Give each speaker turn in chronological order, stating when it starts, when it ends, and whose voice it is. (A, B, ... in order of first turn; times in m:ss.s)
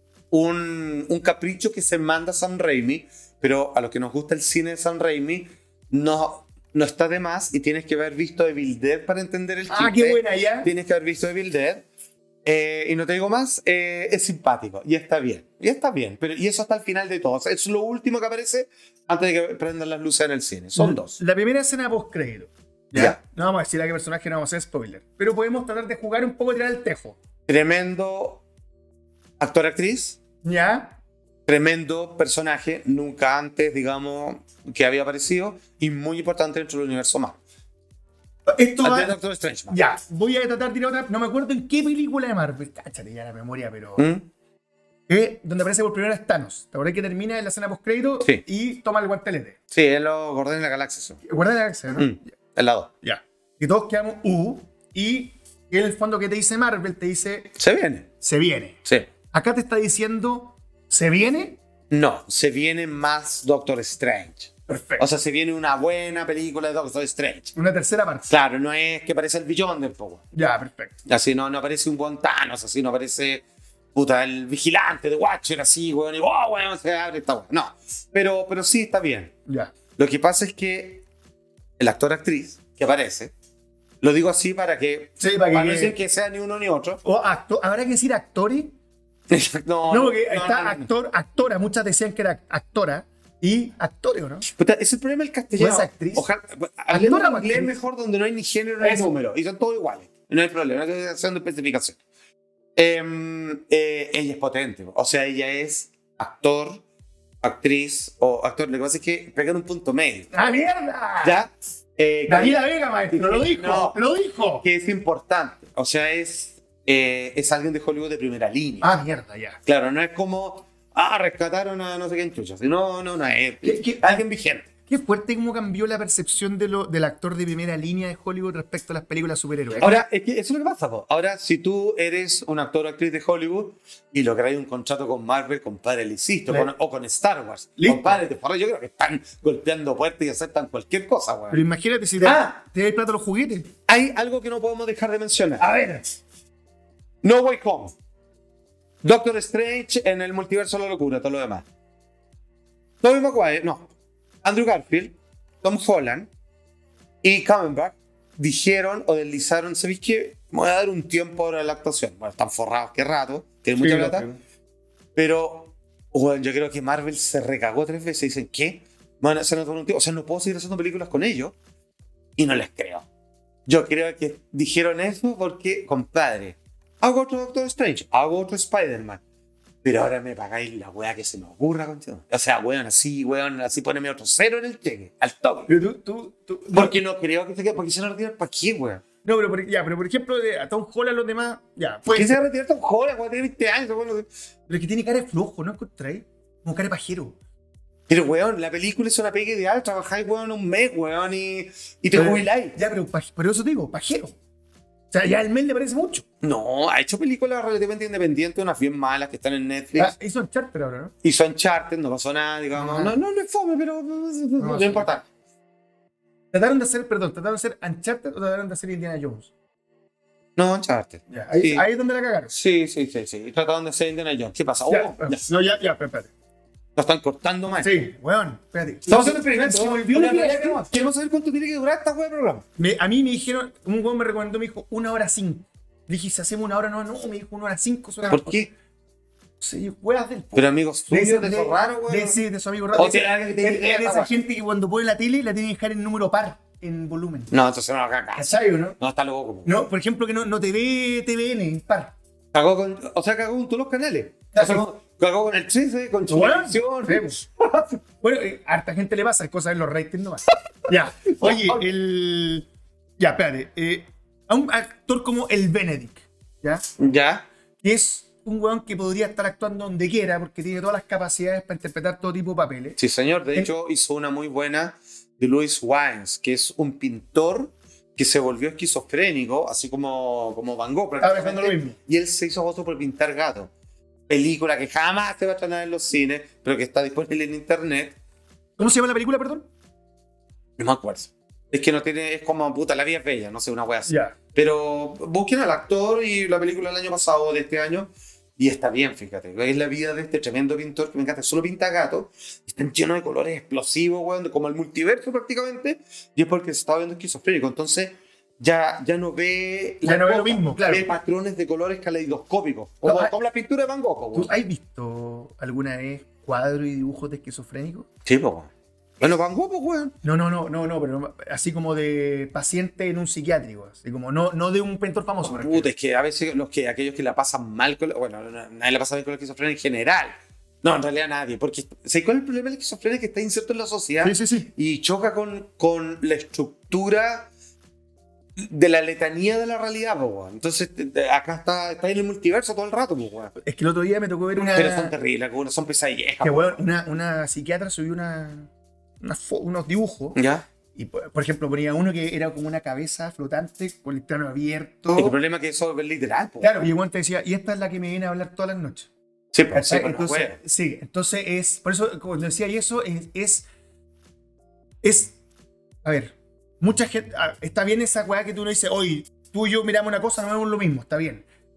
0:00.3-0:11.8 A
0:09.7-0:10.7 B
0:12.4-0:21.2 A
0:20.8-0:27.2 B
0:27.5-0:28.4 A
0:29.4-0:30.2 A
0:30.4-0:31.0 B
0:31.5-0:37.4 A
0:38.5-0:39.2 B
0:38.8-0:39.8 A
0:39.7-0:44.1 B
0:44.0-0:44.3 A
0:45.1-0:49.6 B
0:49.7-0:51.2 A
0:51.2-0:52.2 B
0:52.0-0:52.9 A
0:53.0-0:57.5 B
0:57.6-0:58.1 A
0:58.2-0:58.8 B
0:59.3-1:01.6 B
1:01.9-1:07.5 A
1:04.7-1:05.1 B
1:07.6-1:08.3 B
1:08.3-1:10.2 A
1:10.3-1:11.0 B
1:11.1-1:19.3 A
1:19.5-1:19.7 B
1:20.0-1:21.0 A
1:21.8-1:23.3 A
1:24.0-1:27.0 A
1:25.2-1:26.0 B
1:27.0-1:28.8 B
1:29.3-1:30.9 A
1:29.9-1:34.5 B
1:34.5-1:42.0 A
1:35.6-1:36.3 B
1:36.9-1:37.8 B
1:38.8-1:39.1 B
1:42.8-1:46.8 A
1:47.4-1:50.3 A
1:50.3-1:51.4 B
1:51.2-1:52.6 A
1:52.3-1:54.6 B
1:53.1-1:54.0 A
1:54.6-1:58.9 A
1:58.8-1:59.6 B
1:59.7-2:04.7 A
2:03.6-2:04.2 B
2:04.9-2:09.9 B
2:09.8-2:21.6 A
2:17.8-2:18.2 B
2:21.5-2:23.7 B
2:22.2-2:22.6 A
2:23.9-2:25.6 A
2:25.6-2:26.2 B
2:27.2-2:28.0 A
2:29.0-2:31.6 A
2:33.0-2:33.9 A
2:34.4-2:36.3 A
2:37.2-2:44.3 A
2:43.8-2:44.4 B
2:45.2-2:51.6 A
2:52.4-2:53.1 A
2:53.7-2:59.2 A
2:59.8-3:05.7 A
3:05.7-3:06.9 B
3:06.7-3:09.0 A
3:09.2-3:12.4 B
3:12.1-3:14.3 A
3:14.7-3:17.4 B
3:18.1-3:22.8 A
3:22.1-3:24.4 B
3:25.1-3:26.2 B
3:26.4-3:30.1 A
3:30.0-3:31.1 B
3:31.2-3:35.2 A
3:32.8-3:33.2 B
3:34.6-3:35.1 B
3:36.5-3:39.5 B
3:40.6-3:41.8 A
3:41.3-3:42.5 B
3:42.5-3:45.4 A
3:44.9-3:46.3 B
3:47.0-3:48.1 A
3:47.8-3:50.9 B
3:49.1-3:52.6 A
3:52.8-3:58.6 B
3:58.3-3:58.7 A
3:59.6-4:07.5 B
4:00.5-4:02.4 A
4:03.0-4:04.3 A
4:07.5-4:09.7 A
4:08.4-4:09.0 B
4:09.7-4:12.2 B
4:12.5-4:17.9 A
4:14.5-4:14.8 B
4:16.3-4:17.4 B
4:18.2-4:22.7 B
4:21.4-4:21.8 A
4:23.2-4:26.8 B
4:27.0-4:27.5 A
4:27.8-4:33.0 B
4:33.0-4:43.7 A
4:41.2-4:42.0 B
4:44.3-4:48.2 A
4:48.8-4:49.7 B
4:50.8-5:14.5 A
4:54.1-4:54.4 B
5:10.0-5:11.1 B
5:13.0-5:13.3 B
5:14.3-5:18.1 B
5:18.2-5:20.1 A
5:20.2-5:25.9 B
5:25.4-5:37.5 A
5:34.2-5:34.7 B
5:38.6-5:43.5 A
5:43.6-5:45.2 B
5:44.7-5:46.8 A
5:46.4-5:48.7 B
5:49.2-5:50.4 B
5:50.4-5:50.6 A
5:51.0-5:55.4 B
5:55.1-5:56.7 A
5:56.6-5:59.1 B
5:59.5-6:00.6 A
5:59.7-6:03.7 B
6:05.0-6:05.4 B
6:06.0-6:11.4 B